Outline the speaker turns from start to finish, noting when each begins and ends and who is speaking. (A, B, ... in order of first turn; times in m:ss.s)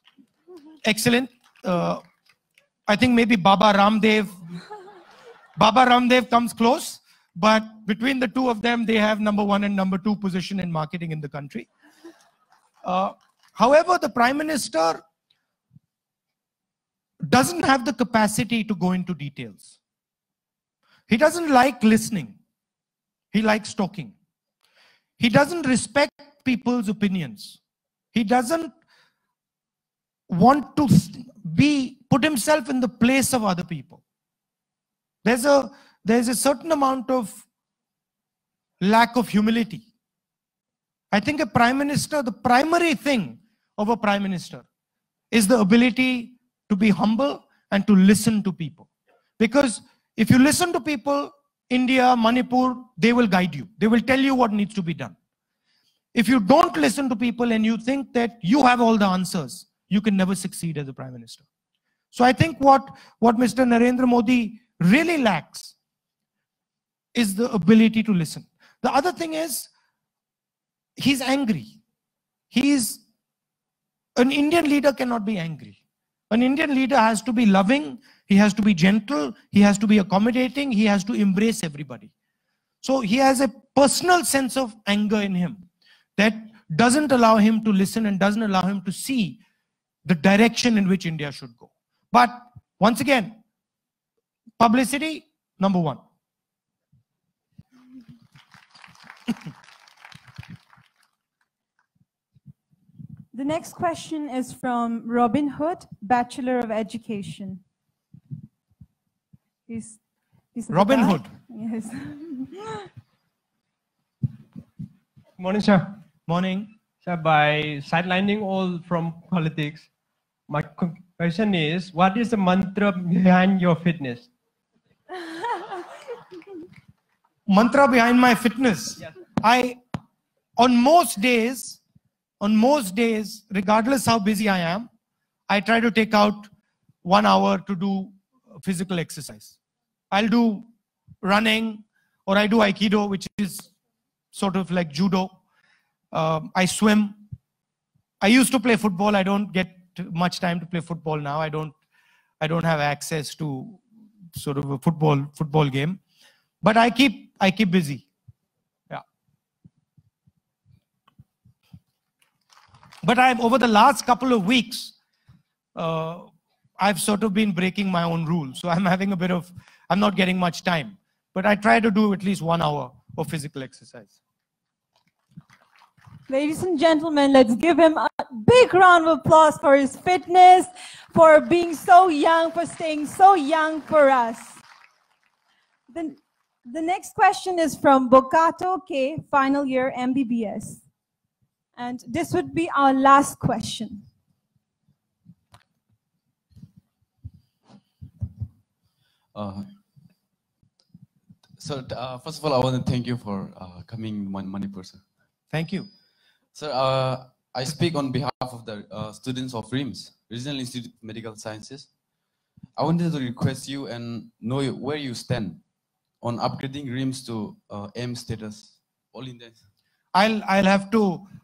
0:00.8-0:02.0 A
0:02.9-0:04.4 A
0:05.6-0:11.7 A
0:12.8-0:15.0 A
0:17.2-0:19.7 A
0:21.1-0:22.4 A
0:23.3-0:24.1 A
0:25.2-0:27.6 A
0:28.1-0:28.7 A
0:30.3-0:34.0 A
0:35.2-0:37.4 A
0:38.8-0:39.9 A
0:41.1-0:44.6 A
0:45.3-0:48.9 A
0:49.4-0:55.2 A
0:56.2-1:01.4 A
1:02.1-1:05.7 A
1:07.2-1:09.7 A
1:11.0-1:11.8 A
1:12.5-1:13.0 A
1:14.2-1:15.8 A
1:16.3-1:22.1 A
1:22.8-1:25.6 A
1:26.2-1:29.4 A
1:30.0-1:33.4 A
1:34.6-1:36.0 A
1:43.3-1:47.6 B
1:49.7-1:50.0 B
1:50.5-1:52.9 B
1:50.7-1:51.3 A
1:55.4-1:56.0 C
1:56.3-1:56.7 A
1:57.0-1:59.9 C
2:00.5-2:04.3 C
2:07.5-2:09.8 A
2:10.6-2:11.8 A
2:12.4-2:14.9 A
2:15.5-2:16.5 A
2:17.0-2:19.6 A
2:20.1-2:20.7 A
2:21.2-2:23.7 A
2:24.3-2:25.4 A
2:26.1-2:27.2 A
2:28.2-2:31.7 A
2:32.4-2:33.8 A
2:34.4-2:36.0 A
2:36.6-2:38.0 A
2:43.0-2:44.9 A
2:45.8-2:54.2 A
2:56.3-3:04.6 B
3:05.9-3:10.8 B
3:11.8-3:14.0 B
3:19.3-3:19.7 D
3:21.6-3:25.0 D
3:25.5-3:25.9 A
3:26.5-3:31.9 D
3:32.8-3:35.6 D
3:36.2-3:39.6 D
3:40.1-3:41.3 A